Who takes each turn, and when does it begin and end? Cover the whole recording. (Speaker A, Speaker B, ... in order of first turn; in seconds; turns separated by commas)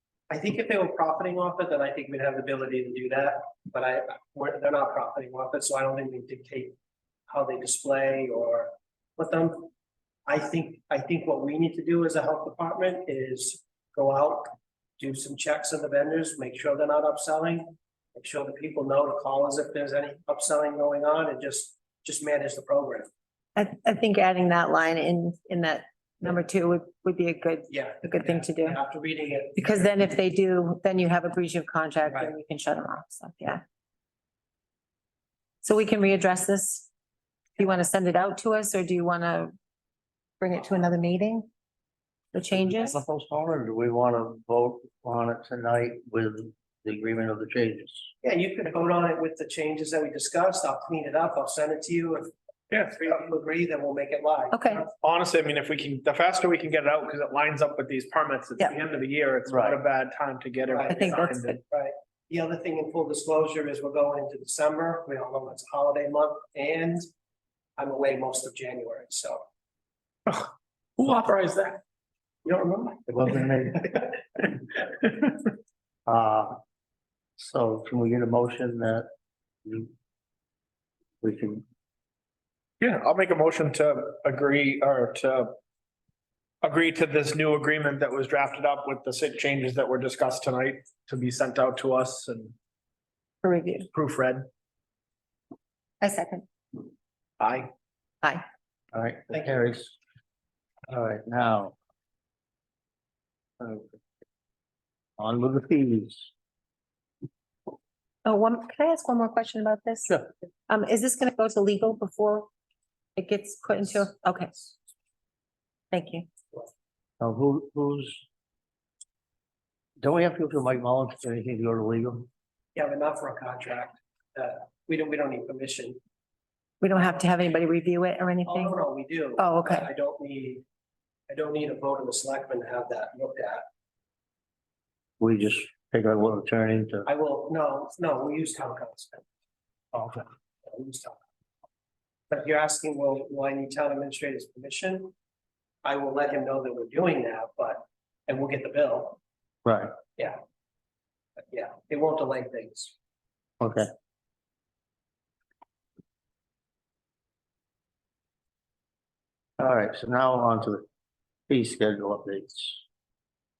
Speaker A: 0.3-6.8, Speaker A: 7.3-9.7, Speaker A: 10.3-23.1, Speaker B: 23.6-28.8, Speaker A: 27.7-29.9, Speaker B: 29.6-33.6, Speaker A: 32.1-32.3, Speaker B: 35.6-36.9, Speaker B: 37.6-39.5, Speaker B: 40.4-41.5, Speaker B: 42.3-43.0, Speaker C: 42.5-48.1, Speaker A: 48.2-54.9, Speaker D: 52.7-53.0, Speaker B: 54.5-54.8, Speaker D: 55.0-61.6, Speaker C: 59.5-59.8, Speaker A: 60.7-61.1, Speaker B: 60.9-61.6, Speaker A: 61.7-67.0, Speaker A: 67.8-69.4, Speaker D: 70.3-71.8, Speaker A: 72.5-73.0, Speaker C: 73.1-74.0, Speaker C: 76.0-76.5, Speaker C: 77.4-79.1, Speaker C: 79.7-79.9, Speaker C: 81.2-81.6, Speaker D: 82.8-85.5, Speaker D: 86.6-92.5, Speaker B: 93.4-93.9, Speaker D: 93.9-94.5, Speaker B: 96.0-96.5, Speaker D: 97.4-97.7, Speaker C: 98.9-100.0, Speaker C: 100.9-101.8, Speaker C: 103.6-104.0, Speaker C: 105.2-106.3, Speaker B: 108.2-112.5, Speaker B: 113.2-114.5, Speaker B: 115.9-116.3, Speaker C: 117.2-118.2, Speaker C: 120.0-122.3, Speaker A: 122.8-126.0, Speaker B: 126.8-128.8, Speaker A: 128.4-130.6, Speaker B: 129.4-129.9, Speaker A: 131.3-133.6, Speaker C: 135.2-137.1, Speaker A: 137.1-139.2, Speaker A: 140.6-141.2, Speaker A: 142.3-145.1, Speaker A: 145.8-149.2, Speaker C: 149.6-149.9, Speaker A: 151.5-152.9, Speaker C: 153.6-153.9, Speaker C: 159.6-160.8, Speaker C: 161.5-162.8